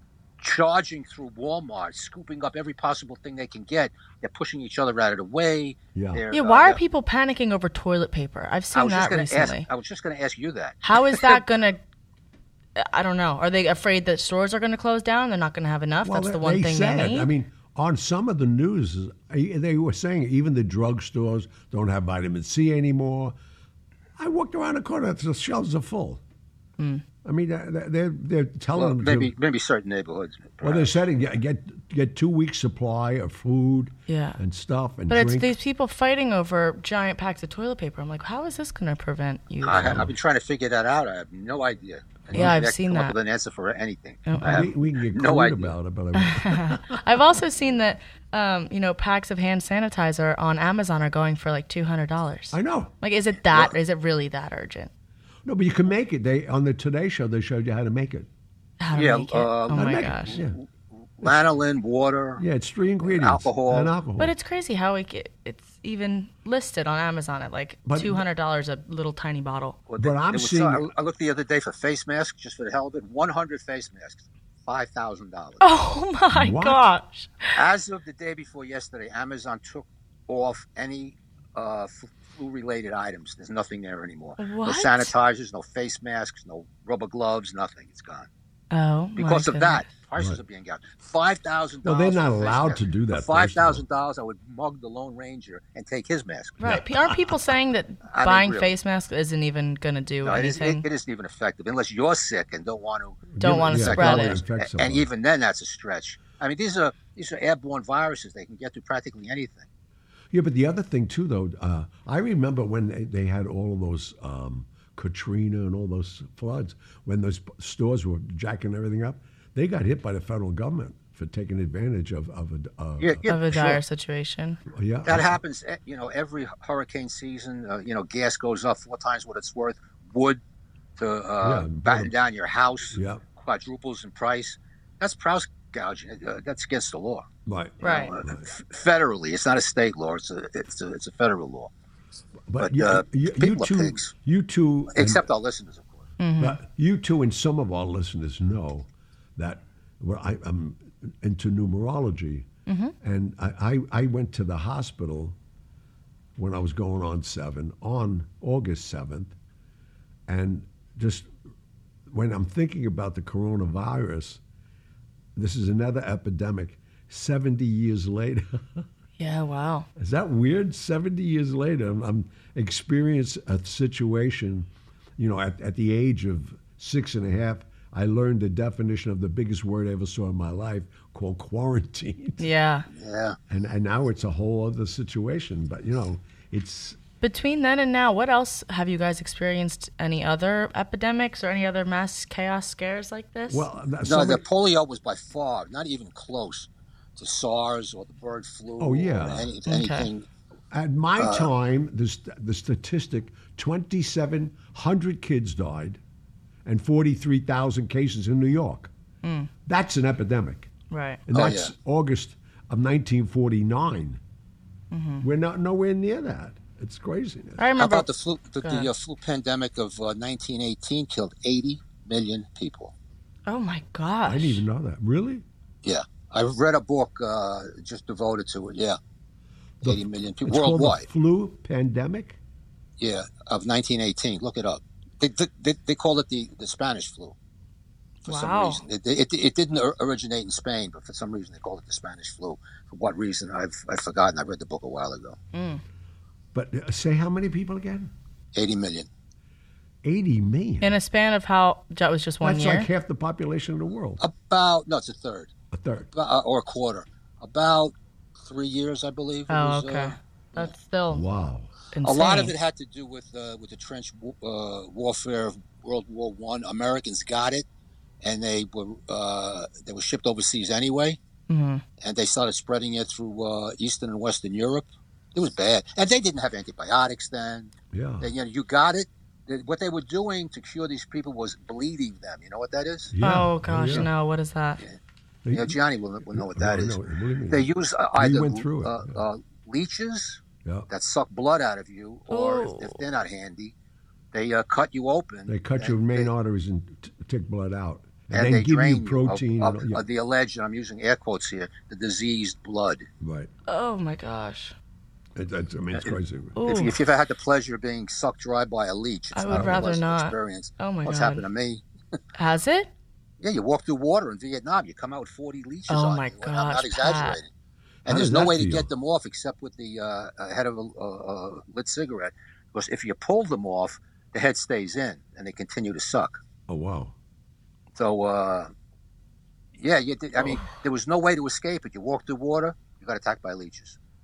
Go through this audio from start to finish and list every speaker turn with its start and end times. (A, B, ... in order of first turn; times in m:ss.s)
0:00.4-0:06.8 A
0:06.0-0:06.2 B
0:06.3-0:09.7 C
0:08.7-0:11.4 A
0:10.8-0:11.8 C
0:12.8-0:17.3 C
0:16.0-0:23.3 B
0:24.2-0:26.2 B
0:26.8-0:27.0 C
0:27.2-0:29.3 B
0:28.7-0:30.9 A
0:30.6-0:35.5 B
0:34.1-0:34.4 C
0:35.1-0:40.1 C
0:39.6-0:45.8 A
0:39.7-0:40.1 B
0:42.3-0:43.2 C
0:42.3-0:42.6 B
0:44.3-0:44.7 C
0:44.4-0:47.0 B
0:46.2-0:54.9 C
0:52.5-0:52.9 B
0:55.4-0:58.3 B
0:58.8-1:00.4 C
0:58.9-1:00.7 A
0:59.7-1:00.6 B
1:01.2-1:02.4 A
1:02.4-1:04.3 B
1:03.0-1:03.9 A
1:04.2-1:09.8 C
1:07.9-1:08.2 B
1:09.9-1:15.6 A
1:10.0-1:10.9 B
1:15.6-1:17.6 C
1:16.3-1:16.8 B
1:17.5-1:28.3 A
1:24.4-1:25.1 C
1:28.7-1:29.9 C
1:29.2-1:36.6 A
1:31.8-1:33.8 B
1:36.6-1:40.8 C
1:36.6-1:37.4 B
1:38.1-1:38.7 A
1:40.2-1:49.7 A
1:43.3-1:45.1 B
1:43.4-1:44.4 C
1:50.3-2:03.8 B
2:03.0-2:03.8 A
2:03.3-2:04.6 C
2:04.7-2:05.4 B
2:05.0-2:10.4 A
2:11.0-2:17.3 A
2:11.4-2:12.1 B
2:13.0-2:13.2 B
2:17.5-2:18.5 B
2:17.8-2:21.7 A
2:17.8-2:18.1 C
2:22.5-2:25.3 B
2:22.6-2:24.1 A
2:24.9-2:26.1 A
2:26.2-2:26.6 C
2:26.4-2:32.5 B
2:32.7-2:32.9 C
2:33.0-2:35.4 B
2:36.4-2:39.4 B
2:40.3-2:41.3 B
2:42.1-2:44.4 B
2:45.4-2:48.9 B
2:49.2-2:49.9 C
2:50.0-3:02.5 B
3:02.4-3:02.9 C
3:02.9-3:03.4 A
3:03.5-3:07.0 B
3:07.2-3:13.7 C
3:13.5-3:14.4 B
3:14.0-3:20.3 A
3:18.8-3:19.5 B
3:19.7-3:20.1 C
3:20.7-3:26.0 B
3:21.2-3:21.5 A
3:26.6-3:28.9 B
3:29.2-3:29.5 C
3:29.7-3:30.7 B
3:30.9-3:31.2 C
3:31.3-3:34.2 B
3:31.3-3:31.7 A
3:34.9-3:35.2 C
3:35.2-3:37.6 B
3:37.6-3:38.1 C
3:37.8-3:42.9 A
3:38.6-3:38.9 C
3:43.5-3:44.6 C
3:44.2-3:45.4 B
3:45.8-3:49.0 A
3:49.8-3:51.1 A
3:49.8-3:52.4 B
3:53.0-3:57.4 A
3:58.2-3:58.8 C
3:58.2-4:05.4 A
4:05.5-4:05.8 C
4:06.5-4:08.1 B
4:08.5-4:09.1 A
4:10.0-4:11.0 B
4:10.8-4:12.9 C
4:12.4-4:14.2 B
4:14.2-4:15.5 A
4:15.7-4:16.1 B
4:16.1-4:20.7 A
4:19.5-4:21.2 C
4:21.1-4:21.7 B
4:21.9-4:22.5 C
4:22.0-4:27.7 A
4:28.2-4:31.2 A
4:31.5-4:31.8 C
4:32.0-4:43.1 A
4:37.9-4:38.3 B
4:43.1-4:44.1 B
4:43.2-4:44.8 C
4:45.4-4:45.8 B
4:45.5-4:53.8 A
4:46.3-4:49.2 B
4:50.6-4:50.9 B
4:52.3-4:53.0 C
4:54.3-4:56.3 A
4:55.5-5:00.0 B
4:58.3-5:03.1 A
5:03.2-5:03.5 B
5:03.7-5:04.8 C
5:05.4-5:06.6 B
5:05.9-5:11.8 A
5:06.6-5:07.0 C
5:09.3-5:11.4 C
5:09.5-5:09.8 B
5:12.4-5:12.9 C
5:13.4-5:17.5 A
5:15.9-5:17.4 C
5:18.0-5:26.4 A
5:18.1-5:18.9 B
5:26.7-5:27.2 B
5:28.0-5:28.7 A
5:29.8-5:34.0 A